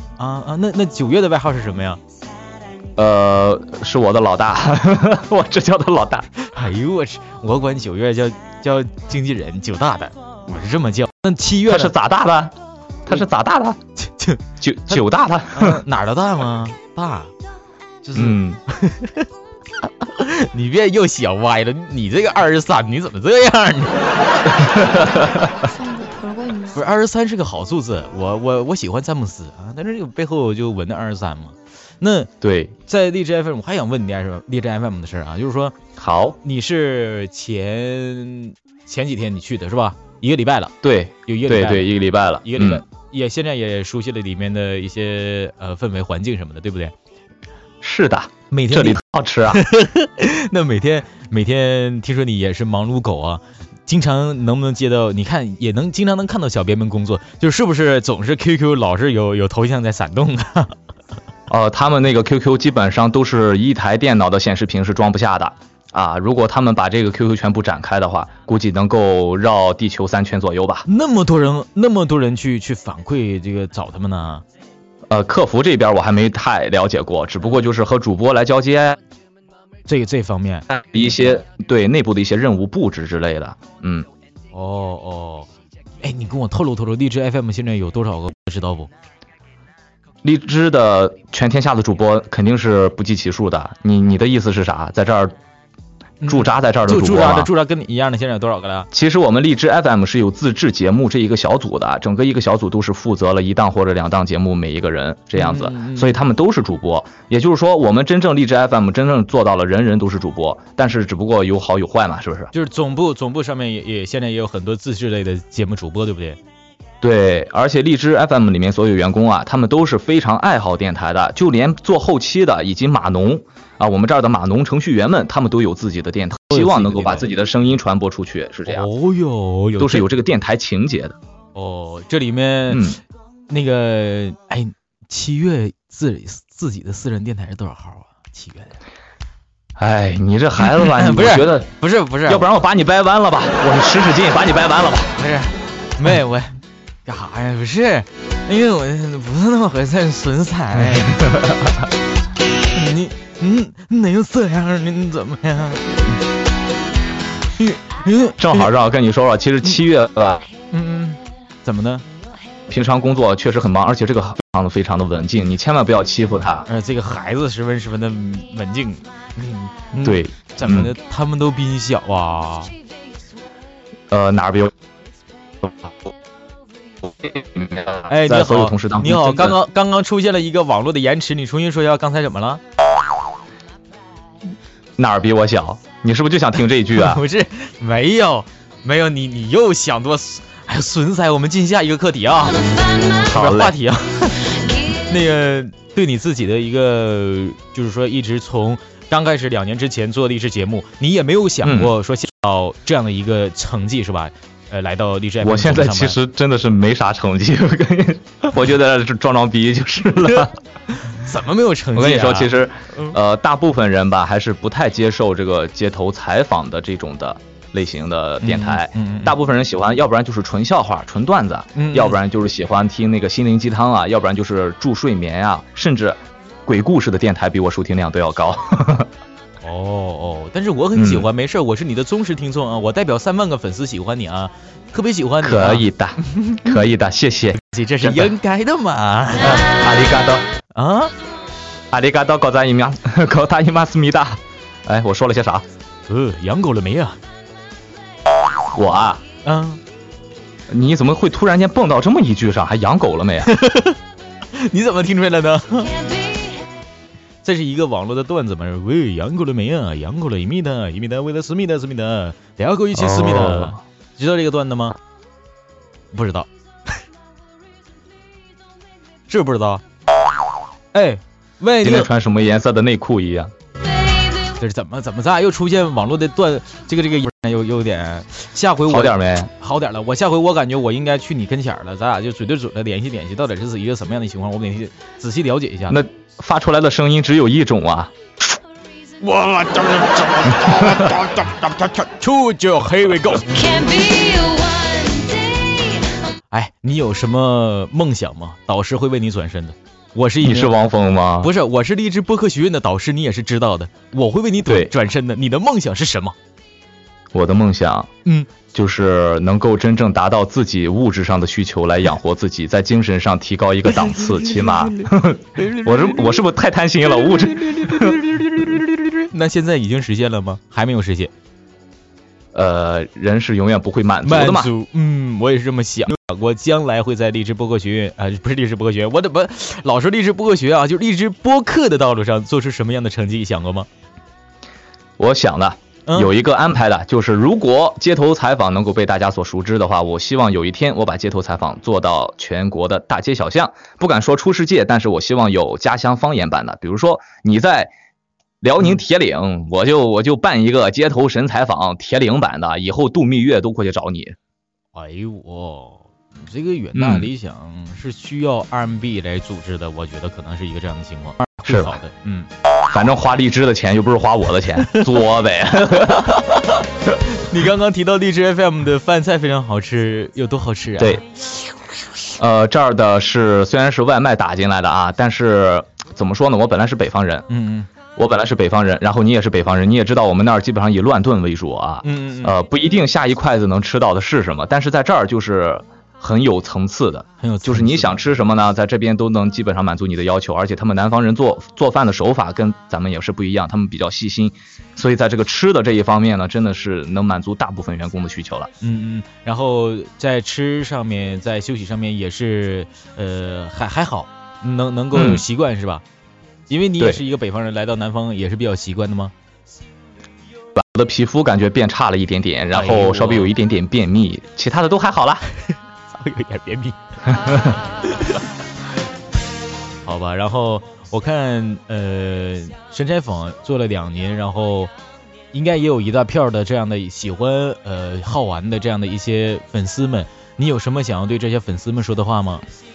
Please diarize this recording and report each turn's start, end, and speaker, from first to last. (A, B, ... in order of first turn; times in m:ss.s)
0:00.2-0:02.0 A
0:03.0-0:06.3 B
0:06.5-0:11.9 A
0:11.7-0:12.6 B
0:13.1-0:13.8 B
0:14.0-0:17.3 A
0:14.6-0:15.8 B
0:18.0-0:19.3 A
0:18.2-0:18.6 B
0:20.0-0:24.1 A
0:24.6-0:25.3 B
0:25.6-0:26.8 C
0:26.7-0:32.3 A
0:32.4-0:32.8 B
0:32.9-0:35.8 A
0:36.0-0:36.4 B
0:36.4-0:41.9 A
0:40.8-0:42.8 B
0:42.4-0:46.9 A
0:47.8-0:49.6 B
0:48.5-1:00.8 A
1:01.5-1:10.9 B
1:10.9-1:14.4 A
1:15.1-1:19.0 B
1:19.9-1:20.7 A
1:20.7-1:24.1 B
1:24.5-1:25.5 A
1:26.0-1:28.9 A
1:30.2-1:35.4 B
1:36.2-1:38.9 A
1:36.3-1:37.5 B
1:38.9-1:52.5 B
1:45.4-1:46.2 A
1:52.5-1:56.4 A
1:57.0-2:08.9 B
2:06.5-2:07.3 A
2:08.7-2:10.1 A
2:09.8-2:11.2 B
2:11.6-2:13.0 A
2:12.7-2:13.0 B
2:13.5-2:18.8 A
2:19.8-2:21.7 B
2:20.6-2:22.5 A
2:22.3-2:25.2 B
2:25.2-2:31.3 A
2:30.9-2:31.6 B
2:32.7-2:36.0 A
2:37.6-2:38.7 A
2:38.4-2:40.5 B
2:40.7-2:42.0 A
2:42.7-2:46.7 B
2:46.7-2:52.7 A
2:50.0-2:50.9 B
2:54.1-2:54.7 B
2:57.1-2:59.6 B
2:58.1-3:02.6 A
3:05.0-3:07.2 B
3:07.0-3:26.2 A
3:12.6-3:13.3 C
3:13.2-3:13.8 B
3:21.6-3:21.9 B
3:25.4-3:30.6 B
3:30.9-3:33.1 A
3:31.9-3:49.1 B
3:38.4-3:39.4 A
3:41.8-3:42.2 A
3:49.6-3:56.8 A
3:50.9-3:51.3 B
3:55.4-3:58.3 B
3:57.5-3:59.7 A
3:59.4-4:00.5 B
4:00.7-4:01.1 A
4:01.9-4:05.6 B
4:06.1-4:07.2 A
4:08.7-4:09.2 B
4:09.4-4:09.8 A
4:10.7-4:13.5 B
4:13.4-4:14.0 A
4:14.5-4:16.0 A
4:16.3-4:16.5 C
4:17.4-4:25.0 A
4:22.9-4:23.8 B
4:26.1-4:27.0 A
4:29.3-4:29.8 A
4:30.9-4:32.1 A
4:31.8-4:33.5 B
4:34.6-4:46.0 A
4:38.9-4:39.5 B
4:45.9-4:48.1 B
4:49.2-4:53.8 A
4:50.8-4:51.1 B
4:53.5-4:56.1 C
4:56.5-5:00.7 A
5:00.4-5:01.5 B
5:01.4-5:06.4 A
5:04.6-5:04.9 B
5:07.3-5:08.1 B
5:08.7-5:18.3 B
5:14.2-5:16.4 A
5:17.2-5:21.3 A
5:22.5-5:24.7 B
5:24.2-5:33.9 A
5:35.2-5:47.9 B
5:36.1-5:36.3 A
5:48.6-5:54.4 B
5:54.9-6:02.5 A
5:56.9-5:57.3 B
6:01.6-6:01.9 B
6:02.9-6:06.5 B
6:06.3-6:11.7 A
6:12.4-6:17.5 B
6:17.5-6:17.9 A
6:18.2-6:38.7 B
6:22.0-6:22.6 A
6:27.4-6:28.2 A
6:38.8-6:46.0 A
6:45.1-6:45.4 B
6:46.7-6:49.3 A
6:50.7-6:55.4 B
6:52.7-6:53.5 A
6:56.1-6:57.0 A
6:58.0-6:58.4 A
7:00.0-7:04.9 A
7:05.5-7:12.6 A